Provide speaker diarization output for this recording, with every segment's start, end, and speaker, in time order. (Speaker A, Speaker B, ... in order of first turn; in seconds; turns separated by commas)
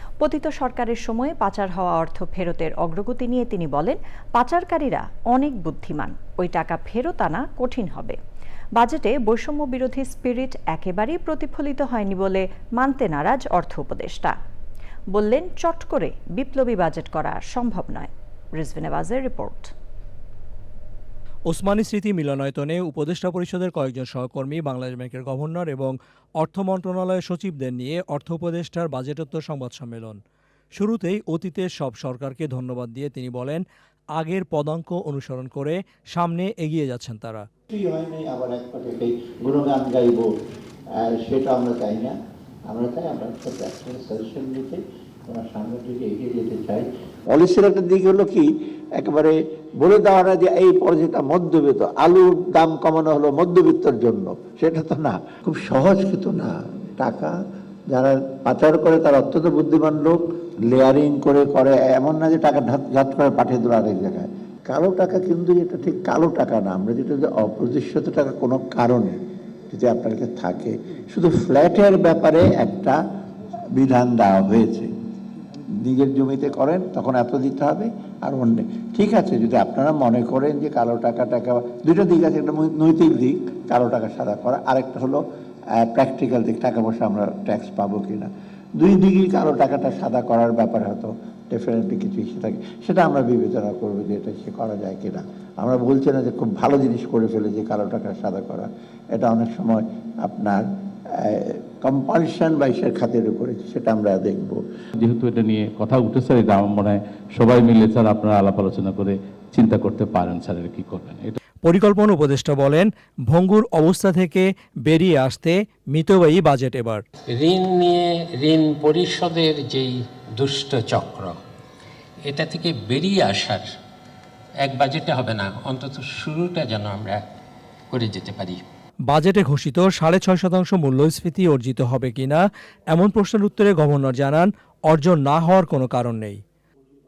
Speaker A: 0.2-8.2, Speaker A: 8.8-14.3, Speaker A: 15.1-19.7, Speaker B: 21.5-30.2, Speaker B: 30.8-33.6, Speaker B: 34.1-37.5, Speaker C: 37.7-40.3, Speaker C: 41.0-42.1, Speaker C: 42.7-48.5, Speaker C: 49.0-57.3, Speaker C: 57.9-69.2, Speaker C: 69.7-73.0, Speaker C: 73.7-74.9, Speaker C: 75.8-85.2, Speaker C: 85.8-100.6, Speaker C: 101.2-104.6, Speaker D: 105.0-111.3, Speaker B: 111.6-117.0, Speaker E: 117.3-121.4, Speaker E: 122.2-123.7, Speaker E: 124.6-127.2, Speaker E: 127.9-128.6, Speaker B: 129.1-136.4